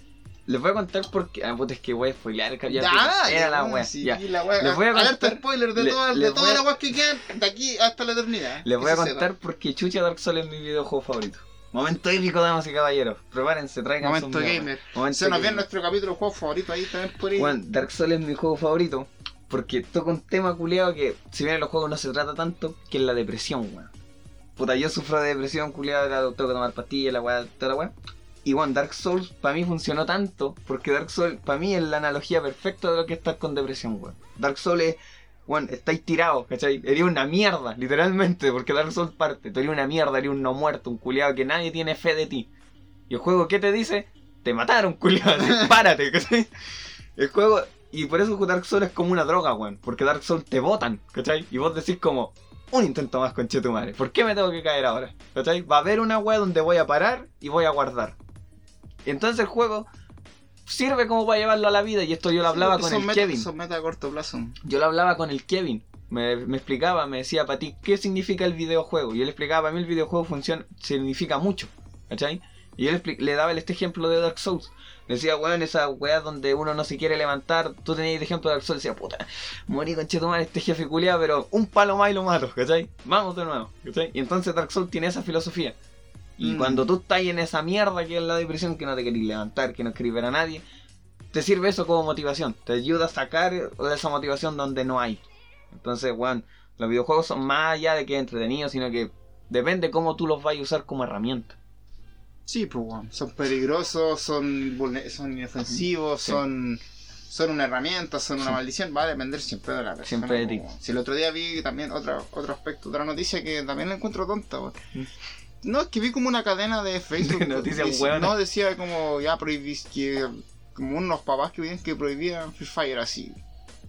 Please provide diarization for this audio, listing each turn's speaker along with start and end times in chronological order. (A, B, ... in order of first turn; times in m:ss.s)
0:00.4-0:06.7 A
0:02.7-0:09.3 B
0:08.6-0:15.6 A
0:14.0-0:17.6 B
0:17.4-0:23.9 A
0:24.6-0:27.9 A
0:28.4-0:42.5 A
0:43.1-0:46.5 A
0:47.2-0:58.2 A
0:59.0-0:59.9 A
1:00.6-1:03.5 A
1:02.4-1:04.6 B
1:04.6-1:25.8 A
1:26.4-1:30.6 A
1:26.4-1:26.9 B
1:31.3-1:41.6 A
1:42.5-1:54.8 B
1:50.0-1:50.6 A
1:55.6-2:03.4 B
1:57.2-1:58.4 A